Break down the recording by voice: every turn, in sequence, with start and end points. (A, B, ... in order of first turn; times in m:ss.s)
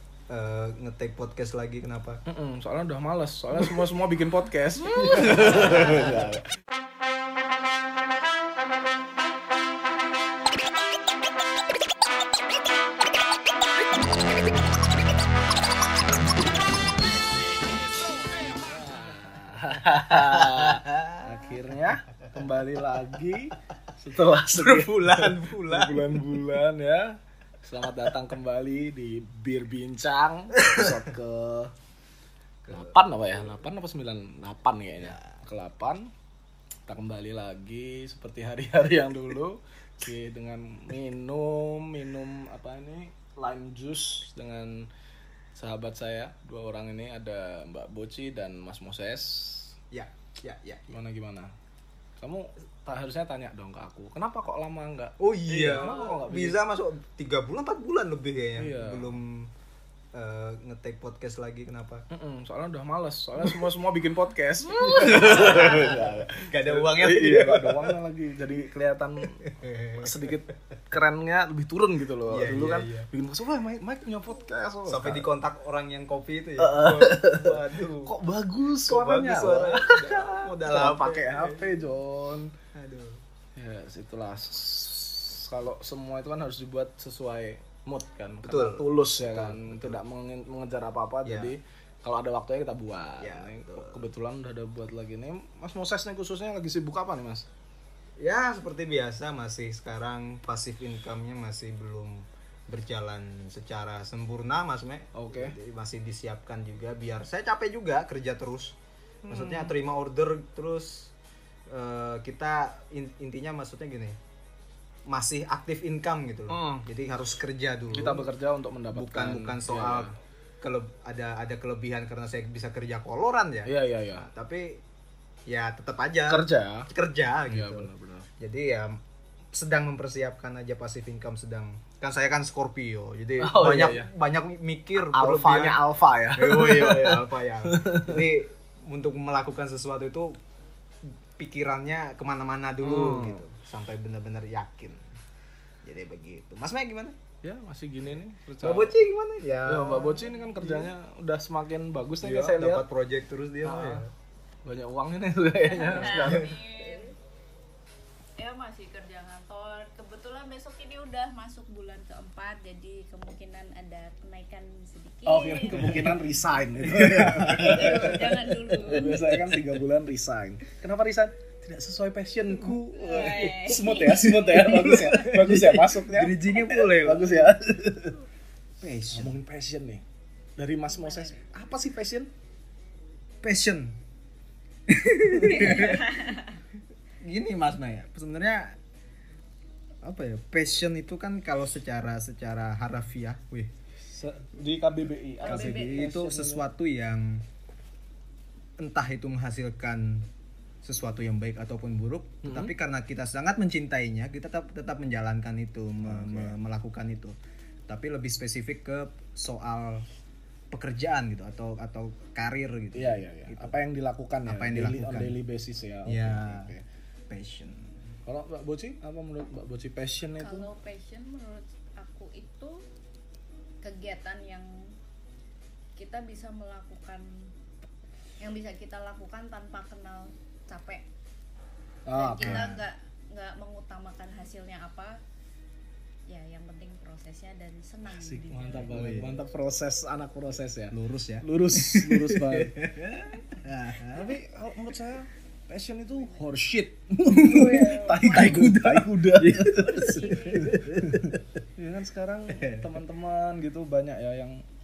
0:00.3-0:02.2 A
0:02.3-0:06.5 B
0:05.2-0:06.2 A
0:18.5-0:31.7 B
0:20.1-0:21.6 A
0:24.5-0:26.2 A
0:30.6-0:31.0 A
0:32.6-0:33.0 A
0:32.7-0:36.1 B
0:35.0-0:35.3 A
0:36.9-0:44.9 B
0:45.6-0:49.7 B
0:49.9-0:50.8 A
0:50.9-0:51.5 B
0:52.2-0:56.6 B
0:55.2-0:59.5 A
0:58.6-0:59.2 B
1:00.1-1:02.0 A
1:02.1-1:15.3 B
1:04.7-1:08.0 A
1:09.4-1:10.5 A
1:12.3-1:13.1 A
1:14.9-1:18.2 A
1:16.6-1:22.5 B
1:18.9-1:21.8 A
1:22.7-1:23.2 A
1:23.6-1:37.5 B
1:28.4-1:30.0 A
1:31.2-1:31.5 A
1:33.2-1:34.1 A
1:38.2-1:48.8 A
1:45.1-1:45.6 B
1:49.3-1:49.7 B
1:49.3-1:51.1 A
1:51.7-1:54.2 A
1:55.1-1:58.3 A
1:56.5-1:56.8 B
1:57.9-2:00.2 B
1:58.9-2:04.8 A
2:03.6-2:04.3 B
2:05.5-2:09.0 A
2:06.3-2:06.9 B
2:07.5-2:08.3 B
2:09.5-2:20.4 A
2:13.4-2:14.1 B
2:15.0-2:18.2 B
2:21.4-2:25.1 A
2:22.8-2:23.4 B
2:25.8-2:27.2 A
2:27.4-2:29.0 B
2:28.6-2:30.9 A
2:29.6-2:32.8 B
2:32.2-2:34.1 A
2:33.6-2:34.0 B
2:34.6-2:36.5 B
2:35.7-2:37.2 C
2:36.1-2:36.6 A
2:38.4-2:46.1 C
2:45.3-2:58.2 B
2:45.7-2:46.1 A
2:46.8-2:48.4 A
2:47.6-2:49.2 C
2:48.9-2:49.6 A
2:52.9-2:54.7 C
2:54.5-2:57.5 A
2:58.8-2:59.4 A
2:59.1-3:00.0 B
3:00.6-3:02.3 B
3:01.0-3:01.4 C
3:03.4-3:04.0 A
3:04.9-3:06.4 A
3:05.4-3:05.8 B
3:05.6-3:06.6 C
3:07.2-3:08.8 A
3:10.0-3:13.7 A
3:14.0-3:16.6 B
3:15.4-3:16.0 C
3:15.5-3:17.4 A
3:18.8-3:20.3 A
3:20.8-3:27.4 A
3:22.4-3:22.7 B
3:26.0-3:26.6 B
3:27.9-3:30.1 A
3:30.7-3:33.8 A
3:32.9-3:36.8 B
3:34.5-3:35.4 A
3:36.1-3:36.7 A
3:37.3-3:37.9 A
3:38.3-3:40.7 B
3:40.4-3:42.8 C
3:43.8-3:44.9 C
3:46.0-3:47.5 C
3:48.4-3:51.0 C
3:52.1-3:52.7 B
3:52.1-3:55.2 C
3:52.4-3:52.8 A
3:56.3-3:58.9 C
3:58.1-4:14.7 B
3:58.9-3:59.4 A
4:00.9-4:04.4 A
4:07.3-4:08.6 C
4:07.4-4:11.4 A
4:09.9-4:10.8 C
4:12.5-4:13.0 A